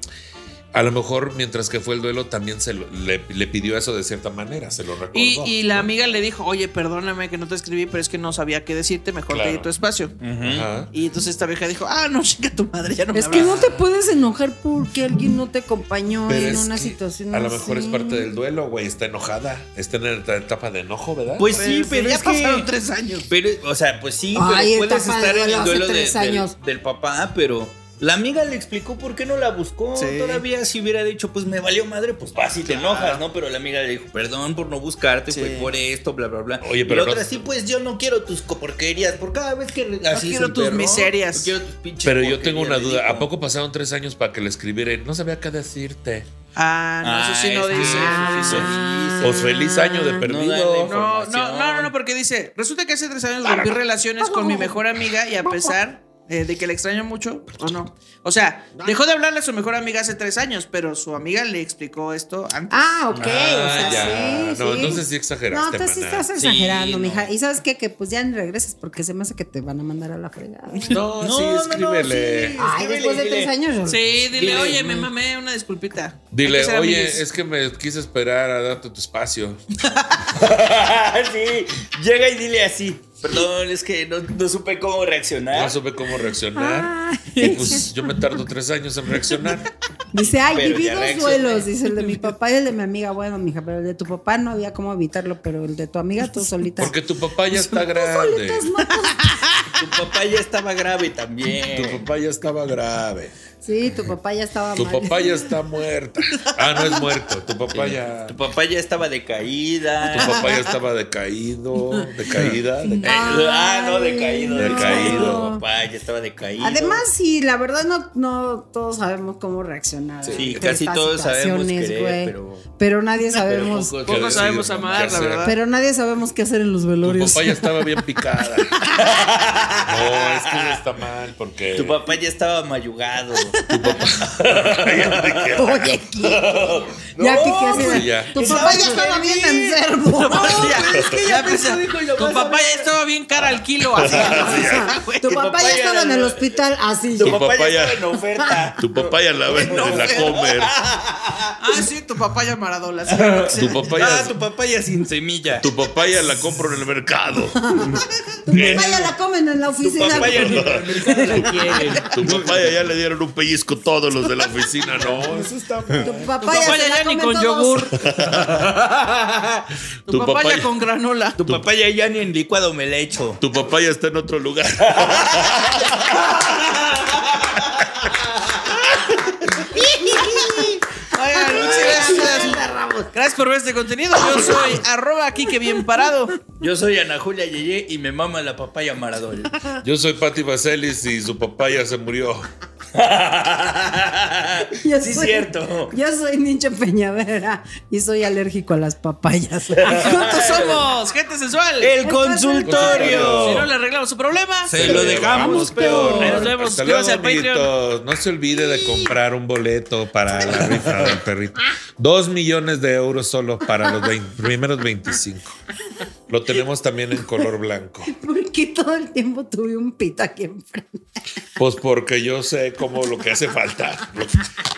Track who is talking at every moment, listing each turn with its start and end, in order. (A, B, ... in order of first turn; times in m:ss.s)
0:00.7-0:05.9 A
0:05.1-0:10.2 B
0:09.3-0:09.7 A
0:10.2-0:10.7 C
0:10.4-0:10.9 A
0:10.9-0:13.5 B
0:13.1-0:18.3 D
0:13.3-0:13.8 A
0:16.3-0:21.6 A
0:21.4-0:22.7 C
0:21.5-0:23.3 B
0:23.3-0:43.3 C
0:24.4-0:26.5 D
0:30.0-0:30.4 B
0:32.6-0:33.2 B
0:35.3-0:35.7 B
0:36.6-0:37.5 A
0:40.1-0:41.6 B
0:42.0-0:46.3 A
0:46.6-0:48.7 B
0:47.0-0:49.4 C
0:47.7-0:50.3 D
0:49.2-0:51.0 A
0:50.2-0:51.9 C
0:50.8-1:02.8 B
0:54.2-0:54.8 D
0:55.4-0:55.8 D
1:02.7-1:11.0 D
1:03.1-1:03.4 C
1:03.2-1:06.3 A
1:03.7-1:04.3 B
1:06.4-1:07.3 C
1:10.7-1:11.0 B
1:10.9-1:12.7 A
1:11.2-1:13.5 C
1:12.5-1:15.1 D
1:13.9-1:17.2 B
1:14.4-1:14.9 C
1:16.3-1:19.6 A
1:20.3-1:25.8 C
1:25.5-1:29.7 A
1:26.6-1:28.1 D
1:27.4-1:27.8 B
1:30.1-1:37.0 D
1:30.5-1:31.7 C
1:32.0-1:32.3 B
1:36.8-1:38.7 A
1:37.5-1:39.4 D
1:39.2-1:39.6 B
1:39.8-1:42.1 C
1:41.7-1:43.4 A
1:43.6-1:45.5 D
1:44.7-1:48.4 A
1:47.7-1:50.5 C
1:50.1-1:53.5 A
1:50.2-1:50.6 B
1:52.4-1:57.0 C
1:52.8-1:55.6 D
1:54.6-1:55.6 A
1:56.6-2:04.0 D
2:00.2-2:00.7 A
2:00.4-2:02.6 C
2:03.3-2:05.2 C
2:04.0-2:05.6 B
2:04.1-2:05.5 A
2:05.4-2:08.0 D
2:07.0-2:08.8 A
2:09.0-2:10.8 C
2:09.8-2:12.0 A
2:11.7-2:22.9 C
2:13.4-2:14.0 B
2:13.6-2:15.8 A
2:15.5-2:20.8 D
2:17.7-2:18.4 A
2:18.4-2:19.2 B
2:20.2-2:25.3 B
2:20.9-2:21.2 A
2:24.0-2:24.9 A
2:24.1-2:24.7 C
2:24.1-2:27.4 D
2:25.2-2:26.5 C
2:27.2-2:31.5 C
2:27.2-2:28.2 A
2:28.4-2:28.7 D
2:28.8-2:30.8 A
2:29.6-2:30.3 B
2:31.6-2:33.9 B
2:33.2-2:35.7 C
2:33.5-2:34.4 A
2:35.5-2:37.8 A
2:37.6-2:42.0 D
2:37.8-2:38.9 C
2:38.5-2:39.1 A
2:39.8-2:42.7 C
2:40.0-2:41.5 A
2:42.0-2:46.7 A
2:45.0-2:45.3 C
2:46.0-2:47.9 D
2:46.4-2:47.9 B
2:48.0-2:48.7 A
2:48.3-2:49.6 C
2:50.1-2:50.7 A
2:50.1-2:51.4 B
2:51.4-2:53.4 C
2:53.4-2:56.4 A
2:54.9-2:55.6 C
2:56.8-2:58.5 C
2:59.7-3:00.8 D
2:59.7-3:02.6 B
3:01.4-3:03.1 D
3:01.6-3:02.3 C
3:03.1-3:06.4 B
3:04.2-3:04.7 D
3:06.6-3:09.6 C
3:09.8-3:12.5 A
3:12.9-3:15.9 C
3:14.7-3:20.8 D
3:19.8-3:20.8 C
3:19.9-3:22.0 B
3:21.8-3:23.6 C
3:22.0-3:23.5 D
3:22.6-3:23.7 A
3:22.7-3:25.4 B
3:24.6-3:26.5 C
3:24.7-3:35.6 A
3:25.3-3:26.4 D
3:25.9-3:27.7 B
3:30.4-3:31.2 C
3:33.8-3:34.1 D
3:36.3-3:38.1 A
3:38.1-3:41.0 D
3:41.6-3:44.5 A